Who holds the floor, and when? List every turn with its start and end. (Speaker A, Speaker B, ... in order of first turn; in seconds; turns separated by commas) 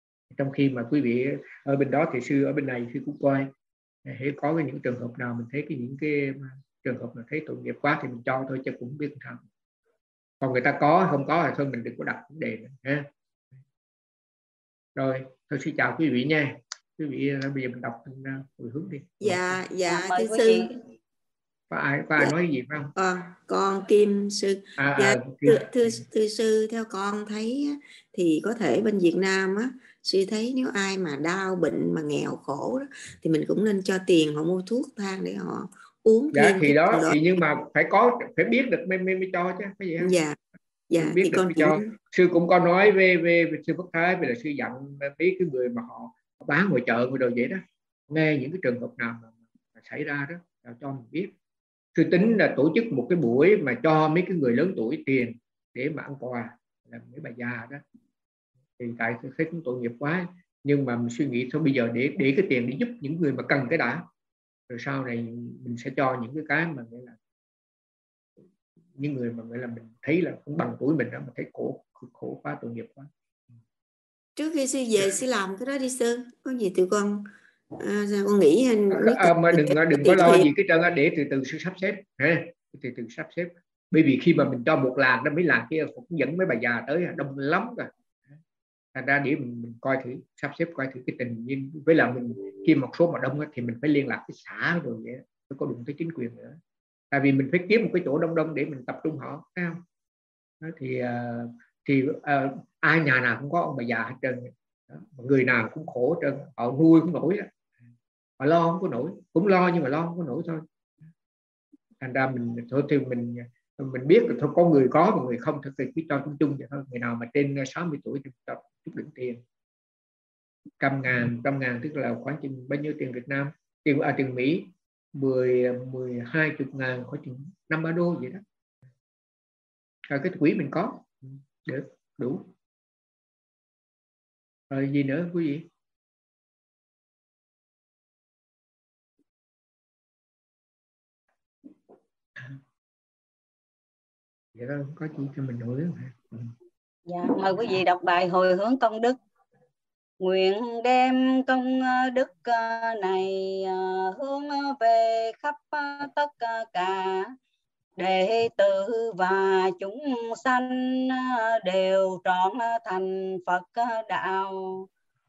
Speaker A: 0.3-3.5, Speaker A: 4.0-9.4, Speaker A: 10.4-13.1, Speaker A: 14.9-19.6, Speaker B: 19.2-20.8, Speaker C: 19.9-20.7, Speaker A: 21.7-22.9, Speaker B: 23.0-37.2, Speaker A: 24.8-26.1, Speaker A: 36.3-40.1, Speaker B: 40.0-40.4, Speaker B: 40.9-41.9, Speaker A: 41.0-51.3, Speaker A: 52.0-57.8, Speaker A: 58.8-64.0, Speaker A: 64.7-67.2, Speaker A: 69.0-73.1, Speaker B: 74.4-80.5, Speaker A: 78.9-87.9, Speaker A: 88.9-96.6, Speaker A: 97.1-99.8, Speaker A: 100.6-107.5, Speaker A: 108.4-110.6, Speaker A: 112.0-119.4, Speaker A: 120.8-128.4, Speaker A: 130.1-132.5, Speaker A: 134.7-135.7, Speaker A: 144.6-146.5, Speaker C: 147.1-149.2, Speaker C: 150.2-157.3, Speaker C: 158.0-164.9